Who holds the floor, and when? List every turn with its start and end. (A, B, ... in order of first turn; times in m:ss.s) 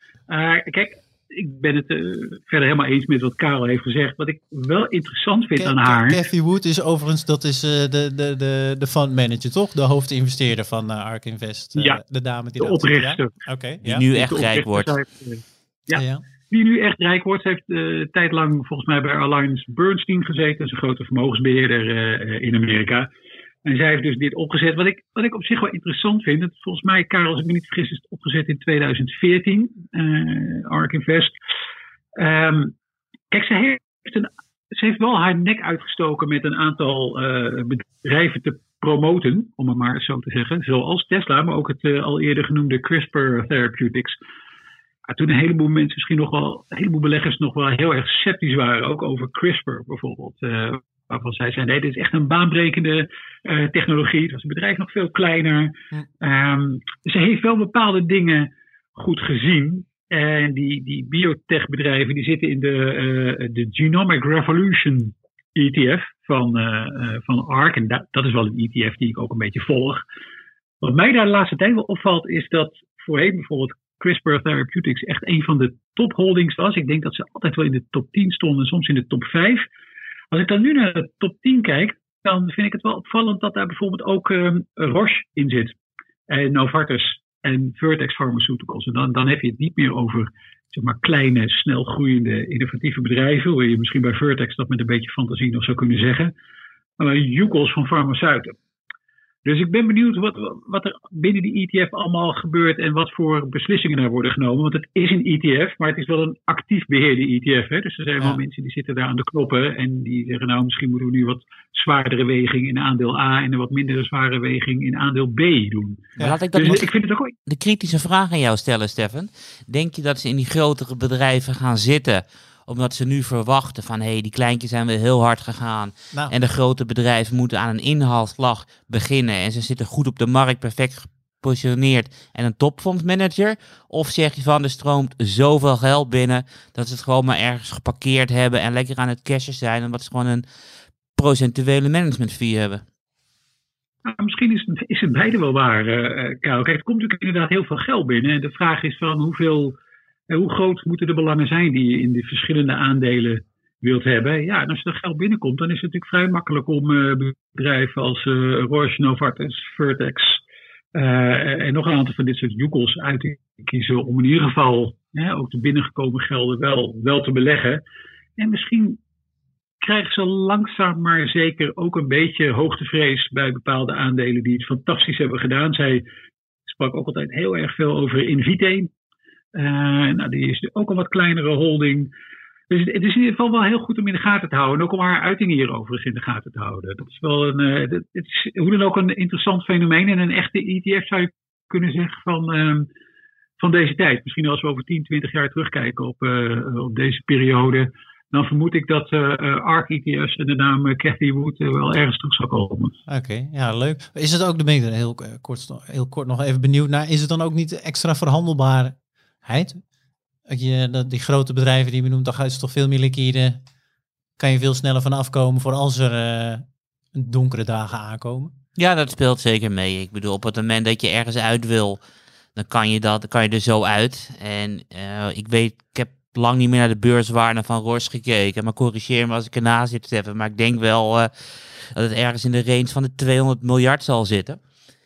0:00.3-0:06.2 A
0:05.6-0:14.1 B
0:11.8-0:12.0 A
0:12.6-0:13.4 A
0:13.8-0:14.9 C
0:14.1-0:23.1 A
0:16.0-0:16.2 B
0:23.6-0:31.3 A
0:32.2-0:32.8 A
0:33.3-0:44.2 A
0:45.1-1:10.0 A
1:10.8-1:19.6 A
1:20.3-1:25.8 A
1:26.3-1:36.3 A
1:37.0-1:38.6 A
1:39.4-1:57.3 A
1:56.2-1:56.8 B
1:56.2-1:56.9 C
1:57.5-2:20.4 C
2:21.2-2:22.8 C
2:24.0-2:29.8 A
2:30.3-2:40.4 A
2:41.0-2:47.8 A
2:48.4-2:49.0 A
2:49.8-2:56.0 A
2:56.7-2:58.9 A
2:59.6-3:02.1 A
3:02.7-3:12.9 A
3:13.6-3:23.0 A
3:23.1-3:29.8 B
3:30.5-3:33.6 B
3:34.4-3:38.5 B
3:38.8-3:42.0 C
3:42.6-3:54.6 C